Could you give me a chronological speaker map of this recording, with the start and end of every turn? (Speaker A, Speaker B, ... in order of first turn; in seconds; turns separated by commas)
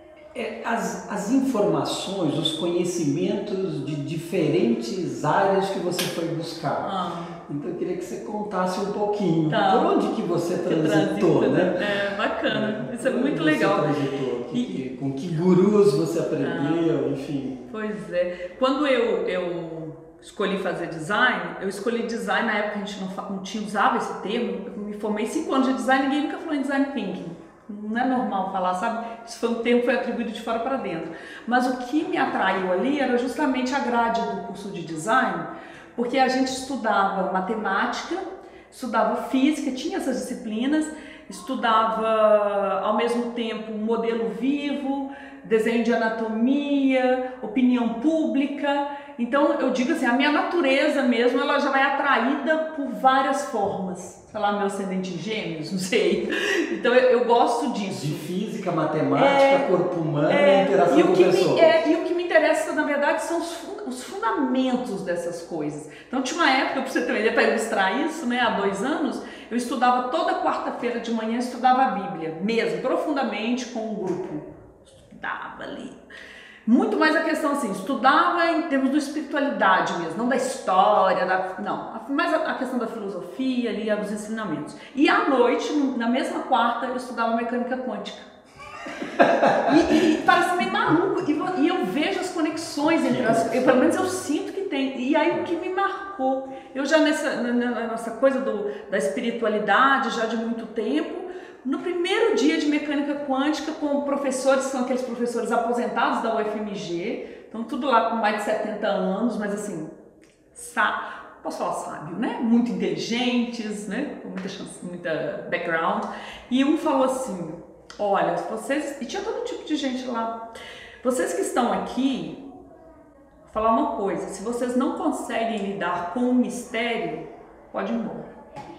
Speaker A: 0.3-6.9, Speaker B: 6.8-7.4, Speaker A: 7.5-11.9, Speaker B: 9.5-9.9, Speaker B: 10.7-13.9, Speaker A: 12.5-17.7, Speaker B: 14.5-14.8, Speaker B: 16.4-16.9, Speaker B: 17.7-58.3, Speaker A: 57.9-61.8, Speaker B: 59.1-59.7, Speaker B: 60.3-76.0, Speaker B: 76.7-88.3, Speaker A: 89.2-90.0, Speaker B: 89.6-109.9, Speaker A: 92.8-94.1, Speaker B: 110.5-120.5, Speaker B: 121.0-122.4, Speaker B: 123.5-128.3